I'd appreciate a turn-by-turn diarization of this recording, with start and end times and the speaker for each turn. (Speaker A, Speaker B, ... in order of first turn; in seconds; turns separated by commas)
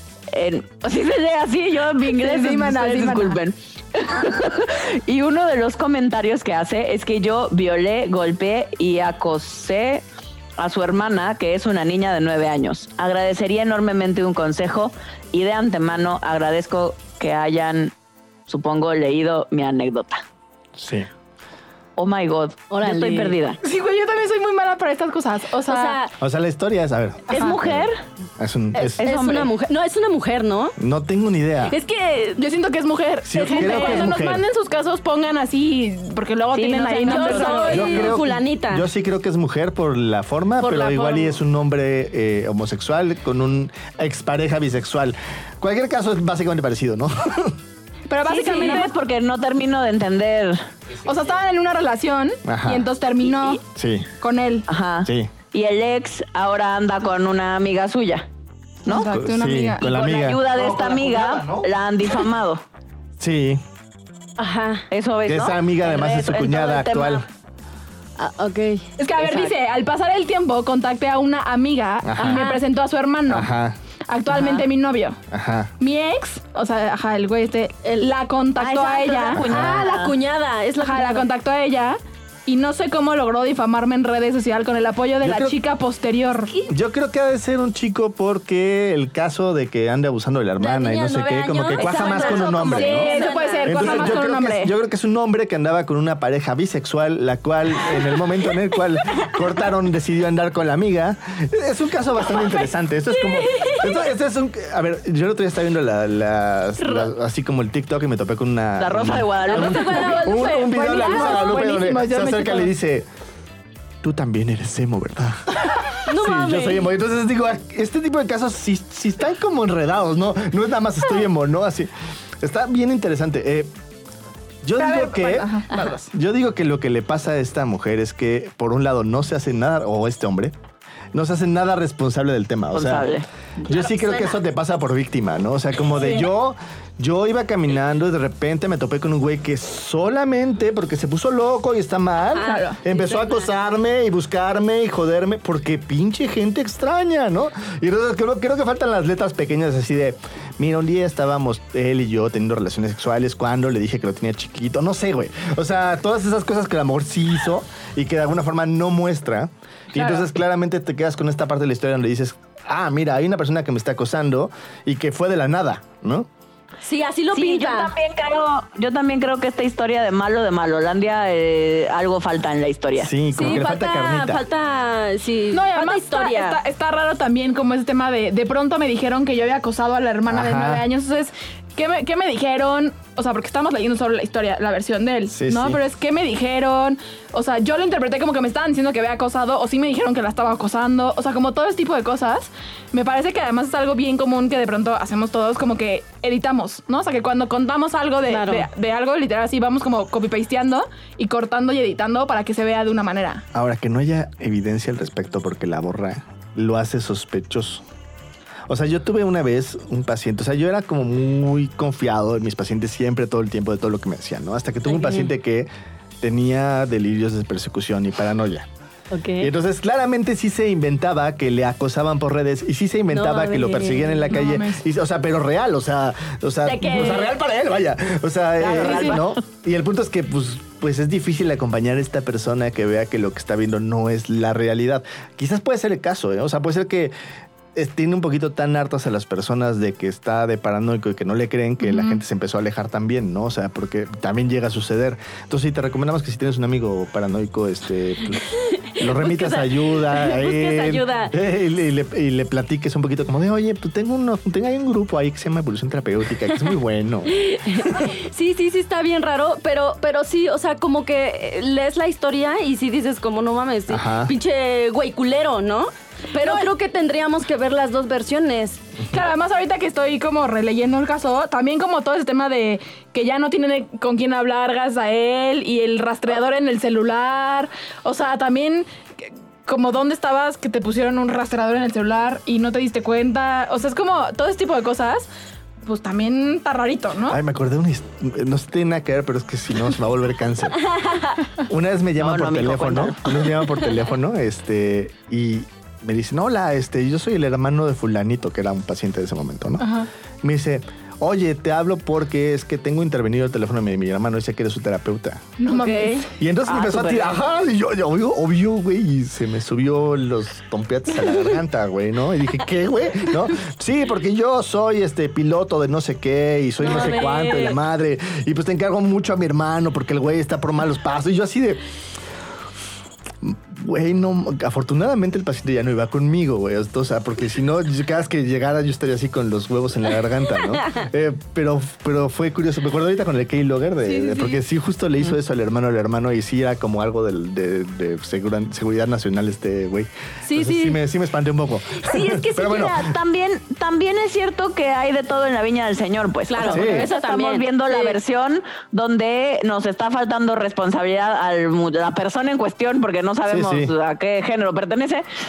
Speaker A: 0.3-10.1, Speaker B: 2.1-3.4, Speaker A: 10.6-17.9, Speaker A: 18.5-20.2, Speaker C: 20.8-21.1, Speaker A: 21.9-23.6, Speaker D: 22.7-23.4, Speaker B: 23.6-26.0, Speaker D: 25.7-26.1, Speaker C: 26.2-29.0, Speaker A: 27.3-28.0, Speaker D: 28.8-30.8, Speaker A: 28.9-29.5, Speaker C: 30.8-31.8, Speaker D: 31.6-32.4, Speaker B: 32.4-38.1, Speaker C: 33.2-34.4, Speaker D: 33.5-34.0, Speaker A: 36.5-38.1, Speaker D: 37.0-38.9, Speaker C: 37.6-47.5, Speaker D: 40.6-41.4, Speaker B: 48.1-48.9, Speaker A: 48.3-50.6, Speaker B: 51.0-53.6, Speaker C: 52.4-52.9, Speaker A: 53.2-53.5, Speaker C: 53.7-54.1, Speaker B: 54.2-54.7, Speaker A: 54.7-58.2, Speaker C: 55.0-55.3, Speaker B: 58.8-59.8, Speaker C: 59.1-61.7, Speaker A: 59.8-62.6, Speaker C: 63.2-63.6, Speaker D: 64.4-64.8, Speaker A: 64.9-67.2, Speaker C: 65.3-67.2, Speaker D: 68.2-69.5, Speaker B: 69.0-73.5, Speaker C: 72.0-72.4, Speaker D: 72.2-72.6, Speaker C: 73.3-73.8, Speaker B: 74.1-75.2, Speaker D: 74.3-74.7, Speaker C: 75.3-75.7, Speaker B: 75.8-79.5, Speaker D: 77.8-78.1, Speaker A: 78.6-80.2, Speaker D: 79.0-81.3, Speaker C: 79.4-79.8, Speaker B: 80.8-86.5, Speaker C: 85.2-85.6, Speaker C: 86.7-113.1, Speaker D: 90.6-94.2, Speaker B: 91.9-94.7, Speaker D: 103.2-104.0, Speaker D: 106.8-107.1, Speaker A: 108.8-110.2, Speaker D: 109.4-111.6, Speaker B: 110.6-112.7, Speaker C: 114.0-123.7, Speaker D: 116.1-116.9, Speaker C: 124.6-130.5, Speaker B: 124.8-126.0, Speaker C: 131.1-133.1, Speaker A: 132.7-133.2, Speaker C: 133.7-166.3, Speaker D: 133.7-134.4, Speaker B: 136.0-136.2, Speaker D: 142.3-143.5, Speaker B: 142.4-142.8, Speaker B: 159.9-160.2, Speaker D: 166.8-167.9, Speaker A: 167.3-173.1, Speaker C: 172.9-174.4, Speaker D: 173.3-176.6, Speaker B: 175.5-203.4, Speaker C: 180.3-180.8, Speaker C: 185.3-185.8, Speaker D: 198.3-198.7, Speaker C: 203.5-207.8, Speaker C: 208.7-215.7, Speaker D: 214.8-215.3, Speaker C: 216.2-218.7, Speaker D: 219.1-219.5, Speaker C: 219.4-237.1, Speaker D: 223.1-224.4, Speaker B: 224.3-224.8, Speaker D: 226.6-227.4, Speaker D: 228.6-229.4, Speaker C: 237.7-258.1, Speaker D: 248.5-251.3, Speaker D: 257.3-268.8, Speaker C: 263.9-264.3, Speaker B: 266.4-266.7, Speaker B: 269.1-285.2, Speaker B: 285.8-287.4, Speaker C: 287.2-290.9, Speaker C: 291.6-299.9, Speaker A: 292.2-293.6, Speaker B: 299.8-300.1, Speaker C: 300.4-305.6, Speaker B: 305.6-306.2, Speaker D: 305.7-306.3, Speaker C: 306.3-321.8, Speaker A: 306.6-307.4, Speaker D: 316.8-317.8, Speaker C: 323.4-343.1, Speaker D: 334.0-334.6, Speaker D: 340.4-341.0, Speaker A: 342.3-355.2, Speaker D: 346.5-348.2, Speaker C: 346.6-347.1, Speaker C: 353.4-353.9